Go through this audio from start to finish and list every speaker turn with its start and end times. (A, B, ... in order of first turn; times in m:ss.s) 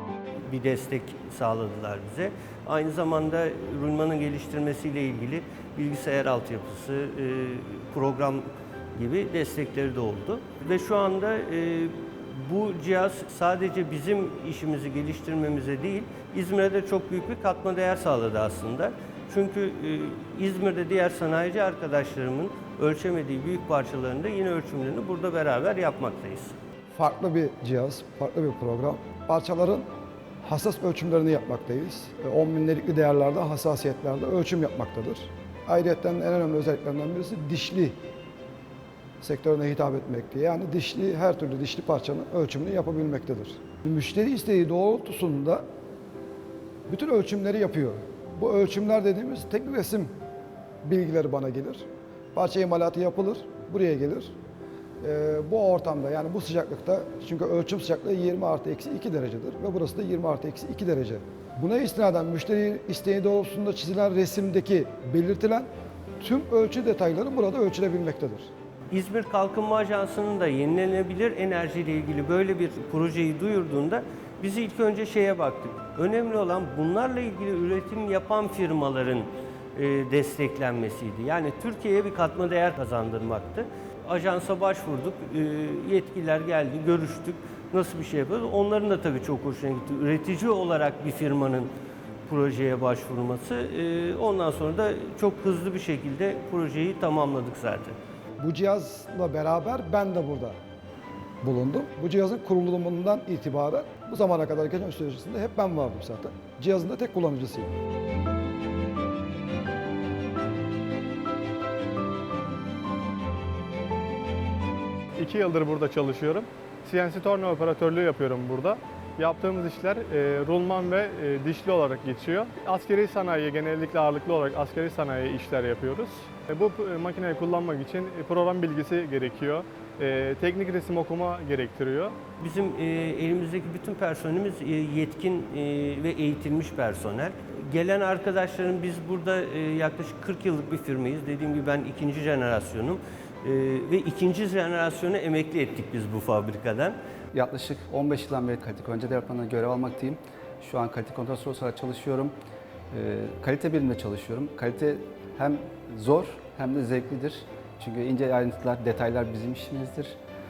0:00.5-0:26.6 A
0:27.0-0:29.9 B
0:30.4-0:38.0 B
0:39.2-0:45.6 B
0:46.9-0:50.1 B
0:50.8-0:54.3 B
0:55.0-1:05.7 B
1:06.2-1:08.5 B
1:08.9-1:31.7 A
1:32.2-1:38.0 A
1:38.4-1:40.6 B
1:41.4-1:47.7 B
1:55.2-2:12.2 C
2:12.4-2:27.0 A
2:27.3-2:32.3 D
2:32.9-2:40.2 D